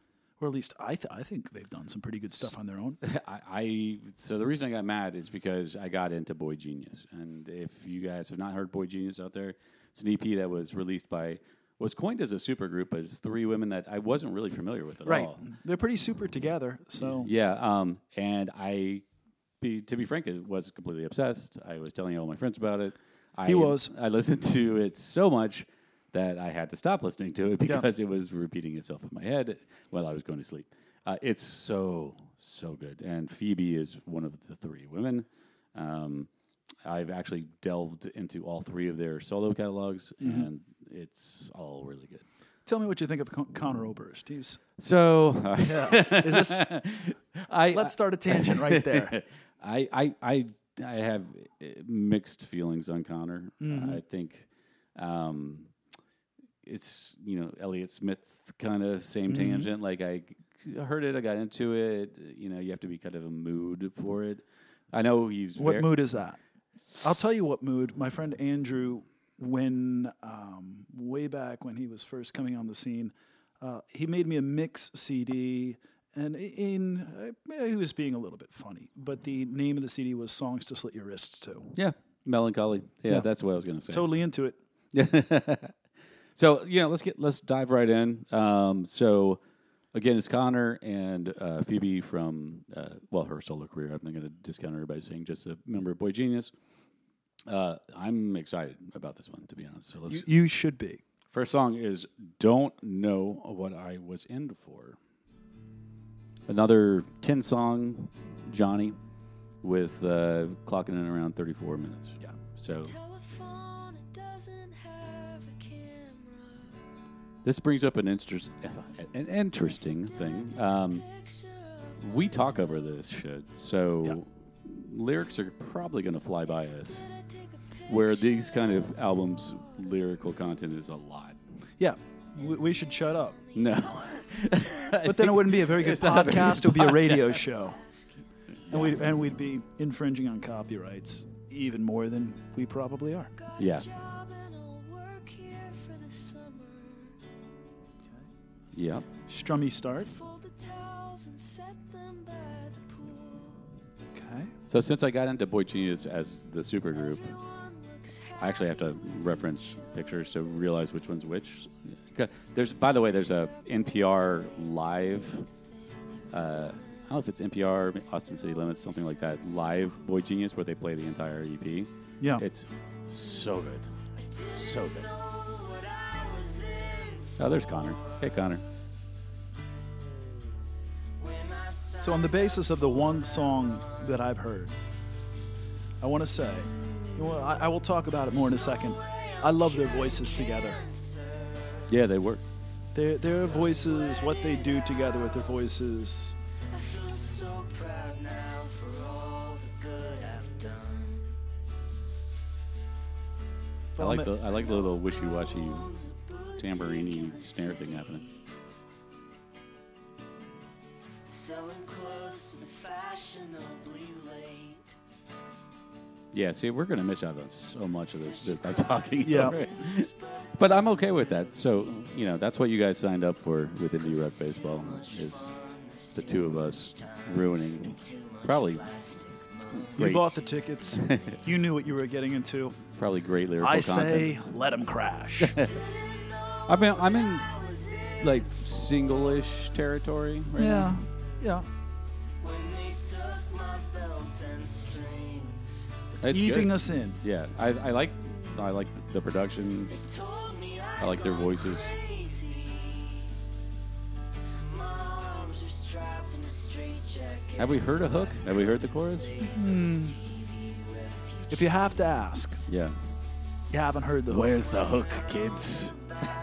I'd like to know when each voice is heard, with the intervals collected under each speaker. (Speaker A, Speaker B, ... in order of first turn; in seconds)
Speaker A: 0.4-3.0, 15.1-17.3, 23.5-23.9, 40.2-40.5, 42.7-44.6, 45.6-46.6, 47.7-49.2, 53.6-54.0, 59.3-59.7, 65.6-66.4, 67.0-81.7, 83.9-84.6, 100.1-101.0, 131.8-133.4, 135.0-137.8, 138.7-143.3, 149.3-150.2, 154.2-154.5, 182.0-184.8, 186.0-190.8, 192.9-196.3, 204.0-204.3, 219.2-219.6, 229.8-232.8, 233.6-235.6, 240.6-241.7, 246.2-247.2, 259.4-260.2, 261.5-262.7, 263.7-264.5
Speaker B: 3.0-15.4, 17.0-19.1, 19.6-36.3, 36.8-42.2, 44.8-55.7, 56.6-65.9, 81.8-84.1, 84.9-85.8, 86.4-89.4, 89.9-96.5, 97.5-100.3, 101.3-105.0, 106.5-109.0, 109.6-113.0, 117.4-121.1, 122.0-127.1, 127.9-131.4, 133.5-137.5, 138.7-139.1, 143.6-143.9, 148.7-149.1, 154.7-157.4, 158.4-165.5, 166.3-175.1, 177.4-178.6, 191.9-192.4, 204.0-205.9, 206.6-208.2, 216.3-225.5, 226.2-228.9, 229.9-230.3, 231.0-231.3, 233.0-234.4, 235.4-235.8, 236.7-237.5, 238.2-241.0, 246.2-250.0, 251.0-251.9, 257.6-259.4, 262.7-263.0, 264.3-266.0
Speaker C: 112.8-116.8, 120.0-122.8, 127.0-128.6, 133.6-134.6, 137.6-138.2, 143.4-147.2, 150.0-153.7, 157.1-160.2, 174.2-178.2, 181.2-182.3, 188.9-191.9, 193.6-194.8, 196.7-201.4, 204.7-208.5, 211.2-215.0, 218.9-220.7, 224.1-230.0, 235.6-238.5, 242.4-245.9, 249.9-253.3, 254.5-261.9, 264.9-265.9